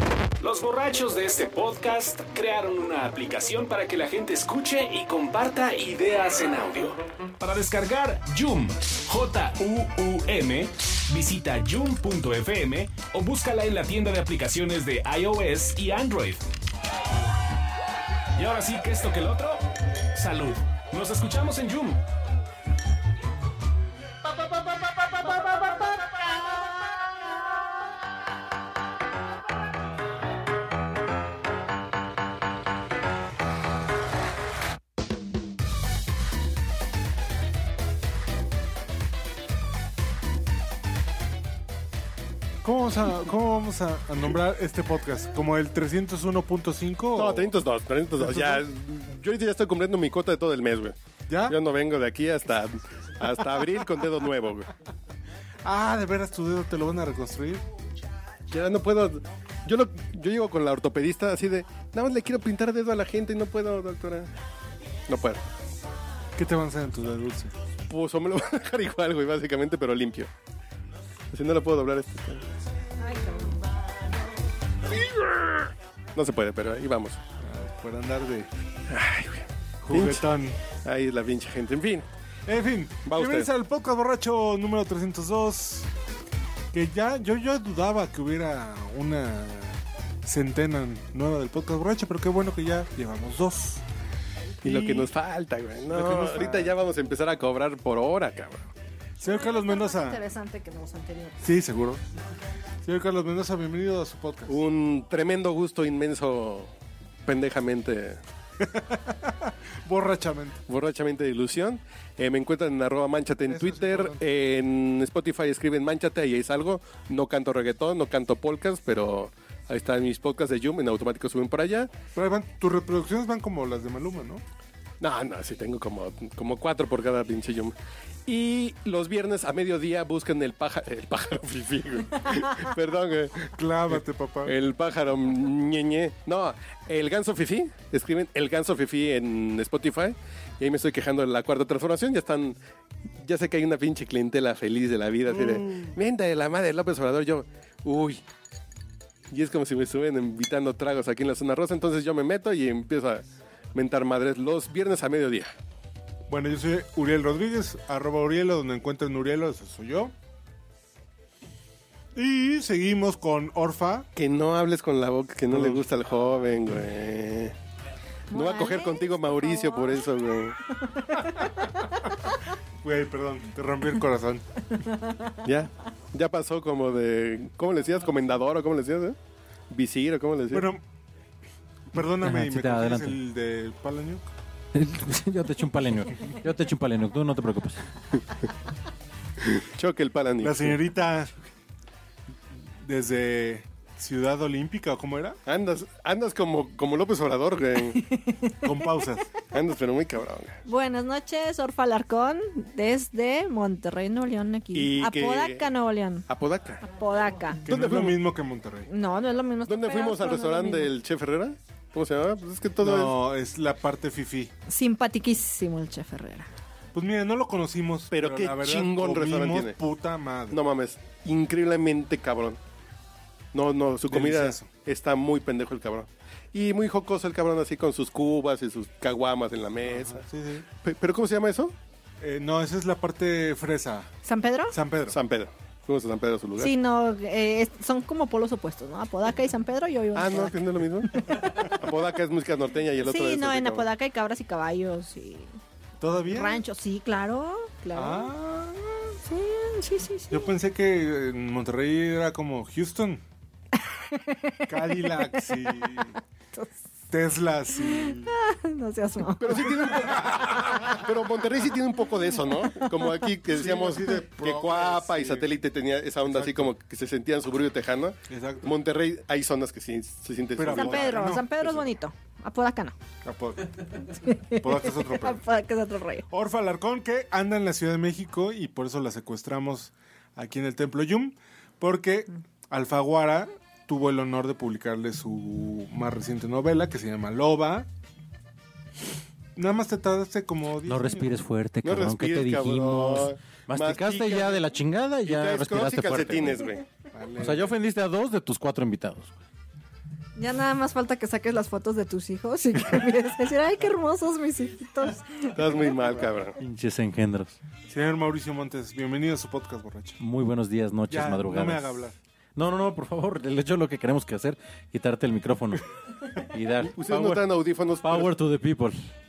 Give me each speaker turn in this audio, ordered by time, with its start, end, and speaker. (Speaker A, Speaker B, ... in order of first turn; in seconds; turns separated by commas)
Speaker A: 0.4-16.5, Speaker A: 18.3-19.6, Speaker A: 20.1-22.0, Speaker B: 42.6-47.5, Speaker C: 47.1-51.0, Speaker B: 48.1-48.6, Speaker B: 51.3-51.5, Speaker C: 51.5-54.7, Speaker B: 55.6-57.6, Speaker C: 58.5-64.3, Speaker C: 65.1-65.4, Speaker B: 66.3-67.5, Speaker C: 67.9-70.3, Speaker C: 71.3-72.4, Speaker D: 73.0-73.6, Speaker C: 74.9-77.2, Speaker B: 77.4-78.5, Speaker C: 78.9-82.0, Speaker B: 79.8-80.6, Speaker B: 82.5-85.9, Speaker C: 83.0-83.5, Speaker B: 86.7-93.8, Speaker B: 94.6-95.1, Speaker C: 94.6-98.7, Speaker B: 95.9-96.8, Speaker B: 99.2-100.2, Speaker D: 99.2-101.5, Speaker B: 101.4-102.0, Speaker B: 102.8-104.6, Speaker C: 104.5-106.7, Speaker C: 107.2-108.2, Speaker B: 108.6-110.6, Speaker C: 110.7-121.9, Speaker B: 113.5-114.2, Speaker B: 122.1-124.4, Speaker C: 125.0-127.7, Speaker C: 128.3-142.6, Speaker B: 133.6-134.6, Speaker C: 143.2-148.2, Speaker B: 145.5-145.9, Speaker C: 149.3-155.5, Speaker B: 156.3-160.1, Speaker B: 162.1-164.1, Speaker C: 164.2-167.5, Speaker B: 165.5-165.8, Speaker D: 168.3-170.1, Speaker C: 168.3-170.6, Speaker D: 170.7-172.0, Speaker B: 172.8-174.4, Speaker D: 174.8-175.3, Speaker C: 175.4-179.2, Speaker C: 179.7-180.7, Speaker B: 180.5-180.8, Speaker B: 181.9-184.2, Speaker E: 182.2-183.2, Speaker E: 184.7-187.9, Speaker C: 189.4-190.8, Speaker B: 190.4-191.3, Speaker B: 192.8-195.4, Speaker C: 195.4-198.0, Speaker D: 198.1-199.2, Speaker B: 198.6-199.3, Speaker C: 199.5-200.6, Speaker D: 200.7-206.2, Speaker C: 204.7-205.6, Speaker C: 206.3-206.8, Speaker D: 206.8-207.6, Speaker B: 207.7-208.9, Speaker C: 207.7-208.2, Speaker D: 208.9-210.9, Speaker C: 209.7-213.1, Speaker B: 212.8-214.5, Speaker D: 214.7-216.5, Speaker B: 216.9-220.6, Speaker C: 218.1-219.8, Speaker C: 220.5-222.6, Speaker C: 223.5-230.2, Speaker B: 224.0-224.7, Speaker B: 229.8-230.7, Speaker C: 230.8-231.7, Speaker B: 232.2-234.1, Speaker D: 234.2-234.8, Speaker B: 234.7-235.2, Speaker C: 235.1-236.7, Speaker D: 236.6-241.7, Speaker C: 240.1-243.8, Speaker D: 243.0-245.5, Speaker B: 246.0-246.6, Speaker D: 246.3-248.3, Speaker B: 247.9-248.8, Speaker D: 249.1-250.5, Speaker B: 250.3-253.2, Speaker D: 253.9-256.7, Speaker B: 254.7-256.2, Speaker B: 257.1-258.3, Speaker D: 257.7-259.8, Speaker C: 259.4-271.3, Speaker B: 260.2-260.6, Speaker B: 263.5-265.5, Speaker B: 266.3-266.7, Speaker B: 268.3-268.7, Speaker B: 270.6-271.4, Speaker D: 270.7-273.0, Speaker B: 273.2-273.7, Speaker D: 274.2-276.3, Speaker B: 274.5-275.4, Speaker B: 276.3-287.9, Speaker B: 289.6-291.3, Speaker E: 290.8-296.6, Speaker C: 291.8-294.6, Speaker C: 295.2-297.6, Speaker E: 297.4-299.4, Speaker D: 300.4-305.8, Speaker C: 305.5-306.6, Speaker E: 306.6-307.6, Speaker B: 307.9-310.2, Speaker E: 310.2-312.0, Speaker B: 311.1-312.2, Speaker E: 312.6-315.8, Speaker E: 316.4-317.4, Speaker C: 316.9-318.3, Speaker E: 318.0-319.1